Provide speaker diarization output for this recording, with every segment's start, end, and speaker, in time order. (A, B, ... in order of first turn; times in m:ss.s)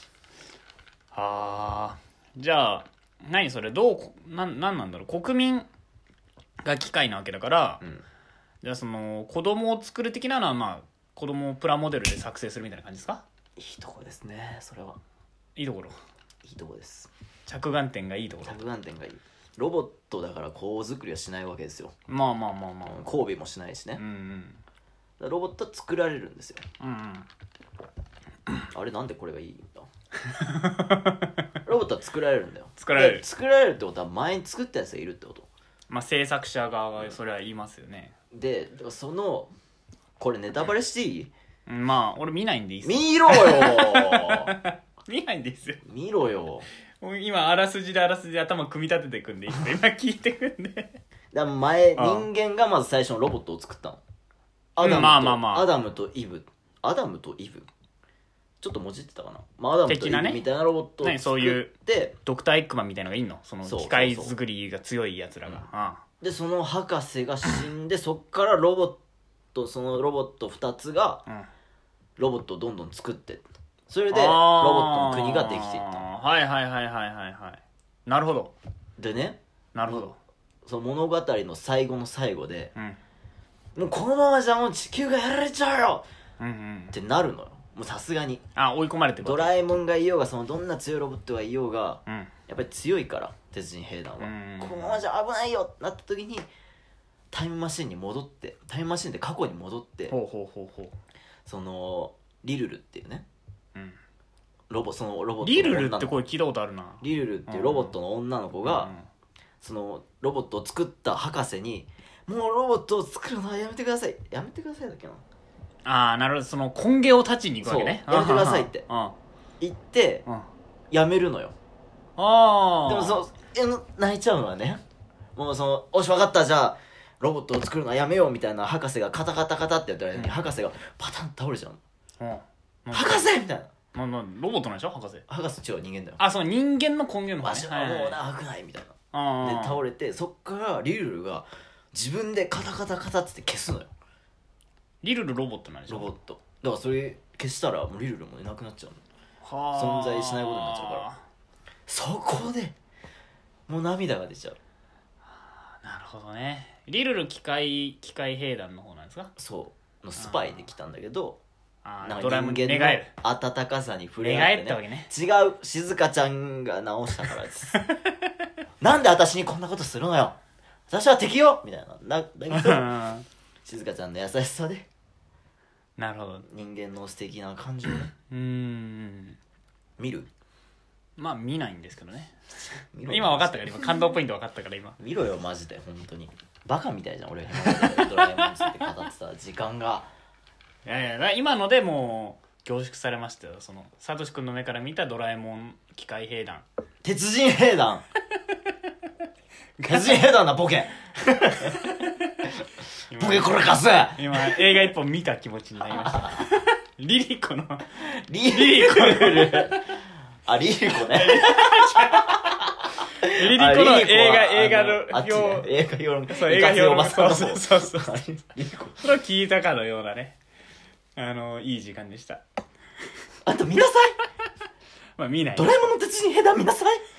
0:01.1-0:05.7 A
0:06.6-0:07.8 A
0:08.6-0:13.2 A
0:13.6-0:15.0 B
0:15.6-0:16.0 A
0:16.4-0:17.1 B
0:17.4-0:18.6 A
0:18.4-0:21.9 B
0:22.1-0:23.1 A
0:22.9-0:24.0 B
0:24.0-0:24.6 A
0:25.2-0:26.6 B
0:26.8-0:27.3 A
0:28.7-0:29.9 B
0:30.2-0:31.4 A
0:31.6-0:35.5 B
0:32.8-0:33.2 A
0:35.9-0:38.1 A
0:38.3-0:39.5 B
0:40.2-0:41.3 B
0:41.7-0:45.8 A
0:42.8-0:44.5 B
0:45.8-0:46.7 B
0:47.0-0:51.0 A
0:51.3-0:54.0 B
0:52.0-0:52.3 A
0:54.8-0:57.7 B
0:54.8-0:55.7 A
0:58.6-1:02.2 B
0:59.9-1:00.4 A
1:01.0-1:06.0 A
1:03.6-1:04.3 B
1:06.2-1:09.0 B
1:09.5-1:11.2 B
1:12.2-1:16.0 B
1:14.1-1:18.5 A
1:19.0-1:20.1 B
1:19.7-1:20.2 A
1:20.6-1:22.7 B
1:23.7-1:26.0 B
1:26.4-1:27.0 A
1:26.9-1:28.4 B
1:28.6-1:29.5 A
1:29.2-1:36.5 B
1:34.2-1:35.0 A
1:37.3-1:40.1 B
1:40.1-1:41.0 A
1:41.4-1:43.2 B
1:44.7-1:46.2 B
1:45.4-1:47.9 A
1:47.0-1:48.9 B
1:48.6-1:49.1 A
1:49.6-1:55.2 B
1:55.8-1:59.1 A
1:57.6-1:58.8 B
1:59.6-2:00.2 B
2:00.9-2:01.5 B
2:02.2-2:03.2 A
2:02.8-2:04.8 B
2:05.3-2:11.8 B
2:10.1-2:10.4 A
2:12.2-2:13.3 A
2:12.9-2:13.7 B
2:13.9-2:15.2 A
2:15.3-2:16.2 B
2:16.2-2:18.2 A
2:17.4-2:23.9 B
2:19.1-2:19.8 A
2:25.0-2:26.1 A
2:25.9-2:29.0 B
2:29.4-2:31.2 A
2:29.7-2:31.0 B
2:31.9-2:32.8 B
2:33.7-2:34.6 B
2:35.3-2:39.3 A
2:39.4-2:41.4 B
2:40.2-2:40.6 A
2:41.8-2:43.1 A
2:42.0-2:47.8 B
2:44.2-2:45.1 A
2:47.7-2:48.3 A
2:48.8-2:52.9 B
2:52.5-2:53.2 A
2:53.6-2:54.9 B
2:56.0-2:56.5 A
2:56.5-2:58.1 B
2:58.3-2:59.4 A
3:00.0-3:00.3 B
3:01.2-3:02.4 A
3:02.9-3:03.9 B
3:03.0-3:05.0 A
3:05.0-3:10.1 B
3:07.8-3:08.8 A
3:10.8-3:16.6 A
3:17.0-3:18.0 B
3:19.8-3:20.2 A
3:19.8-3:21.9 B
3:21.7-3:22.3 A
3:23.1-3:23.6 A
3:23.1-3:24.6 B
3:24.2-3:28.0 A
3:25.9-3:26.4 B
3:28.0-3:29.8 B
3:28.5-3:29.9 A
3:30.4-3:39.0 B
3:31.0-3:32.6 A
3:33.2-3:35.7 A
3:36.3-3:38.2 A
3:39.0-3:40.4 A
3:41.2-3:42.4 A
3:43.4-3:44.2 B
3:45.2-3:45.9 A
3:45.5-3:47.0 B